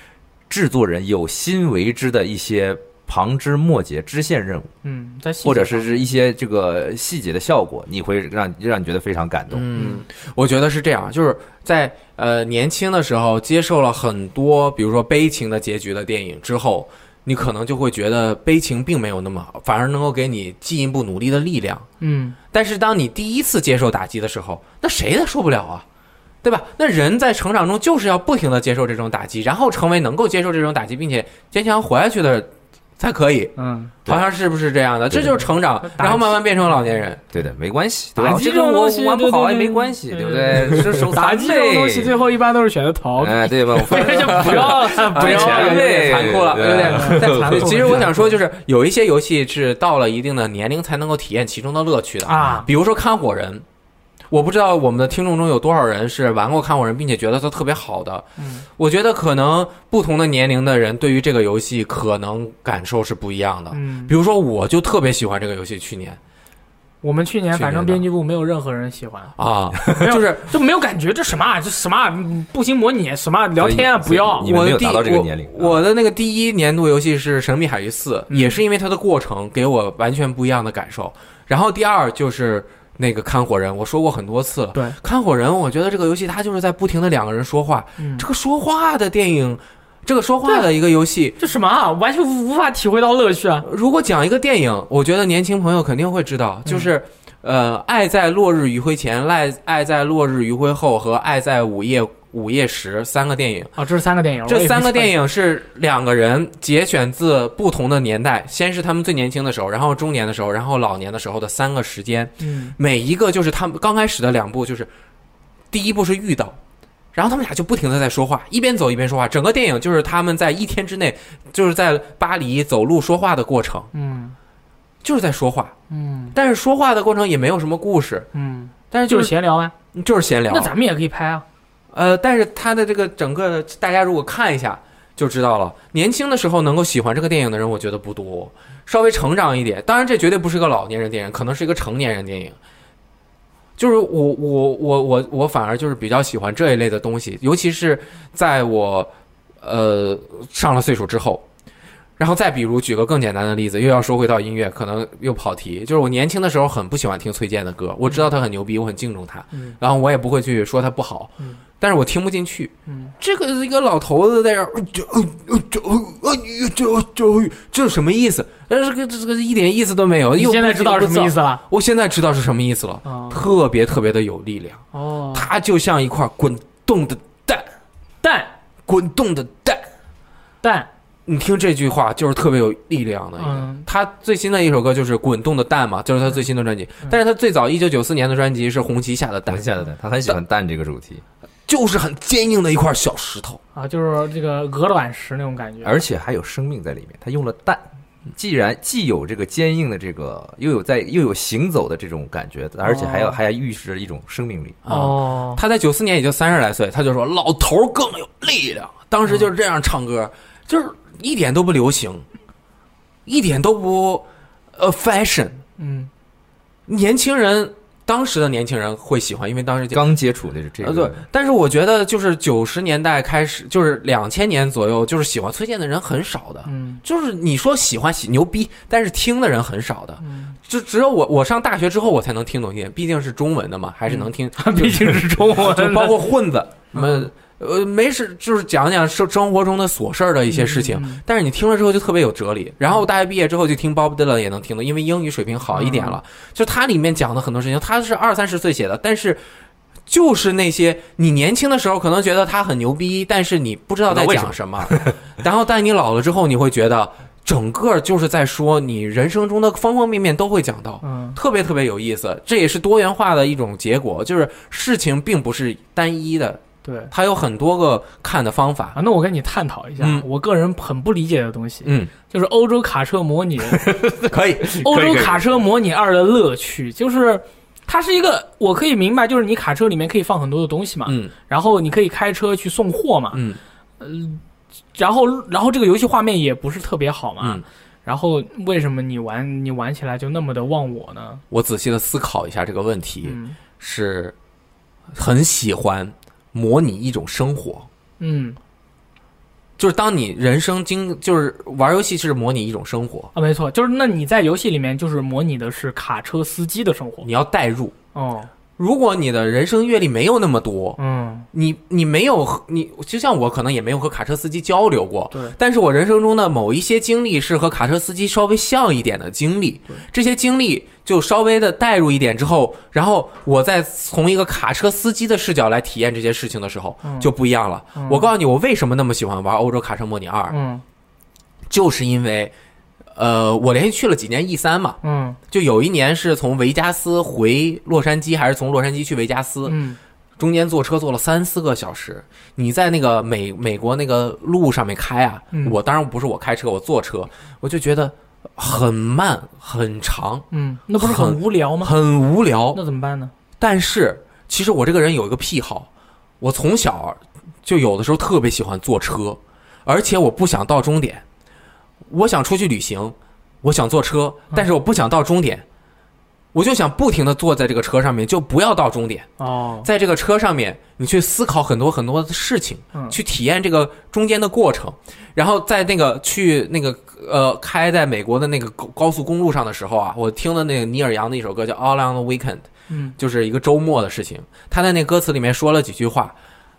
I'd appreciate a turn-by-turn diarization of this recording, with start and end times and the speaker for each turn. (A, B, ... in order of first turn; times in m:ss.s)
0:00.5-0:04.7 A
0:04.8-0:06.1 B
0:05.4-0:09.7 A
0:09.5-0:21.9 C
0:09.8-0:10.0 B
0:22.0-0:22.4 B
0:22.5-0:25.8 C
0:26.4-0:33.5 C
0:33.6-0:33.9 B
0:34.0-0:37.2 C
0:35.1-0:35.4 A
0:35.8-0:36.4 B
0:37.3-0:42.2 A
0:38.2-0:48.4 B
0:43.2-0:48.0 A
0:43.9-0:53.6 C
0:52.2-0:52.7 B
0:54.3-1:06.2 C
0:58.4-0:58.6 B
1:03.7-1:04.1 B
1:07.0-1:09.3 B
1:07.5-1:08.0 C
1:09.4-1:10.5 C
1:09.9-1:14.5 B
1:13.6-1:15.8 A
1:14.4-1:31.4 C
1:18.3-1:18.6 B
1:28.0-1:28.2 B
1:31.4-1:33.7 B
1:33.6-1:43.8 C
1:43.8-1:45.1 B
1:44.5-1:54.9 C
1:52.4-1:52.8 B
1:55.7-1:56.6 C
1:57.1-2:03.9 C
2:03.9-2:04.4 B
2:05.0-2:05.7 C
2:05.9-2:06.4 B
2:06.3-2:08.3 C
2:08.3-2:09.7 B
2:08.9-2:09.4 C
2:09.9-2:10.7 C
2:10.5-2:11.4 B
2:11.9-2:22.6 C
2:23.8-2:29.1 C
2:29.6-2:31.4 C
2:32.2-2:57.7 C
2:39.5-2:39.8 B
2:42.9-2:43.1 B
2:50.4-2:51.6 B
2:53.0-2:53.4 B
2:54.9-2:55.5 B
2:58.2-2:58.5 B
2:58.9-2:59.9 C
3:00.6-3:00.9 B
3:01.3-3:09.8 C
3:03.4-3:03.8 B
3:09.5-3:11.2 A
3:11.7-3:13.6 C
3:13.8-3:16.0 B
3:15.8-3:17.8 A
3:18.3-3:24.8 A
3:22.8-3:23.4 B
3:24.8-3:32.2 C
3:24.9-3:25.6 B
3:33.3-3:34.2 C
3:34.8-3:35.6 C
3:35.8-3:36.1 B
3:36.9-3:40.0 C
3:39.9-3:41.2 A
3:40.8-4:09.4 C
3:46.7-3:47.0 B
3:50.2-3:50.6 B
3:54.1-3:56.2 B
3:56.9-3:57.3 B
4:00.5-4:01.2 B
4:05.7-4:06.2 B
4:10.1-4:29.0 C
4:14.1-4:15.2 A
4:21.0-4:21.4 B
4:26.8-4:27.1 B
4:29.0-4:33.9 B
4:30.0-4:30.2 C
4:31.8-4:32.1 C
4:34.3-4:35.4 C
4:34.7-4:43.4 B
4:41.1-4:41.3 C
4:43.3-4:43.6 C
4:44.0-4:44.4 B
4:44.9-4:51.4 B
4:51.5-4:54.3 C
4:53.2-4:53.6 B
4:55.1-4:57.9 C
4:58.2-4:58.6 B
4:59.8-5:03.3 C
5:03.4-5:07.3 B
5:07.2-5:08.0 C
5:08.2-5:08.5 B
5:08.8-5:11.0 C
5:11.0-5:11.5 B
5:11.5-5:30.6 C
5:27.0-5:27.3 B
5:28.0-5:28.3 B
5:30.5-5:30.8 B
5:31.7-5:32.5 C
5:33.2-5:35.0 C
5:35.0-5:35.4 B
5:35.5-5:39.8 C
5:39.7-5:40.0 B
5:40.4-5:50.4 C
5:50.5-5:51.9 B
5:51.0-5:52.8 C
5:52.7-5:53.3 B
5:53.6-5:55.9 C
5:56.4-6:01.2 C
6:02.1-6:05.6 C
6:06.5-6:09.3 C
6:09.4-6:09.9 B
6:09.8-6:26.4 C
6:22.9-6:23.2 B